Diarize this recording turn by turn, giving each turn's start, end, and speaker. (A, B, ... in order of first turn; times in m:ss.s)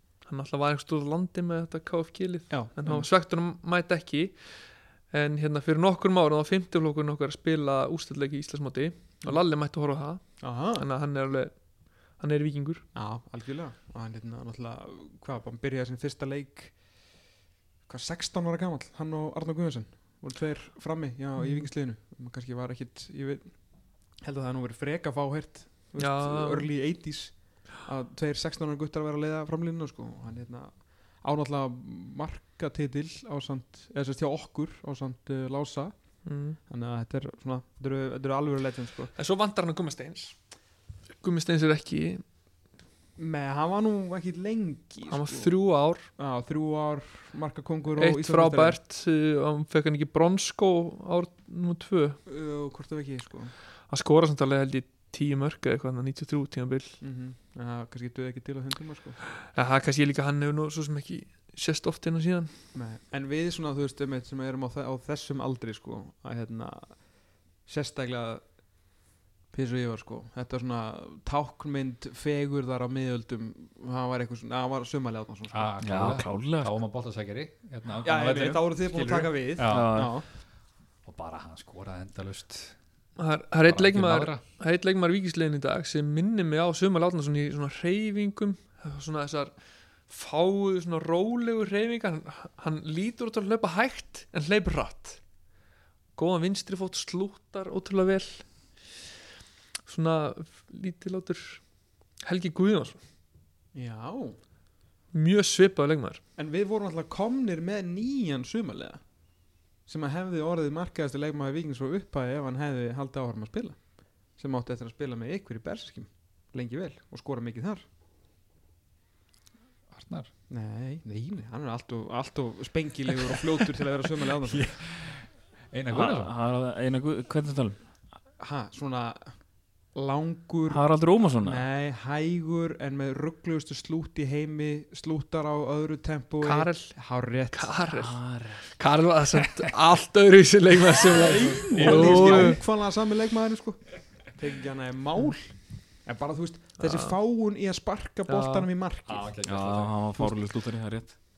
0:00.2-0:12.8 A
0:02.5-0:03.1 B
0:10.4-0:10.8 B
0:12.9-0:16.8 B
0:17.9-0:23.6 B
0:21.4-0:21.7 A
0:24.2-0:39.1 B
0:26.0-0:26.7 A
0:36.2-0:36.6 A
0:39.1-0:40.3 A
0:41.2-0:42.2 A
0:43.2-0:45.5 B
0:45.1-0:46.1 A
0:46.2-0:48.8 B
0:47.9-0:52.2 A
0:52.2-0:53.5 B
0:53.9-0:57.0 A
0:57.0-0:59.2 B
0:59.5-1:02.5 A
1:02.7-1:07.0 B
1:07.6-1:08.4 B
1:09.5-1:15.7 B
1:15.5-1:20.2 C
1:15.8-1:16.8 D
1:18.0-1:20.2 B
1:19.7-1:20.1 D
1:21.0-1:22.7 C
1:23.2-1:29.5 A
1:23.7-1:24.4 C
1:30.1-1:35.2 A
1:36.2-1:38.5 A
1:39.8-1:41.6 A
1:42.2-1:43.0 A
1:43.7-1:44.4 B
1:45.1-1:46.2 A
1:46.4-1:49.0 B
1:49.8-1:53.8 B
1:54.3-1:57.8 B
1:59.9-2:00.3 C
2:00.5-2:04.8 B
2:04.5-2:06.3 C
2:05.9-2:07.8 D
2:08.4-2:09.4 B
2:09.9-2:10.8 B
2:10.7-2:11.6 D
2:11.4-2:17.9 B
2:16.4-2:17.0 A
2:17.5-2:22.6 A
2:18.0-2:18.8 D
2:21.1-2:29.3 B
2:21.4-2:22.6 D
2:26.8-2:27.1 A
2:28.3-2:28.7 A
2:29.0-2:30.3 C
2:29.4-2:31.1 D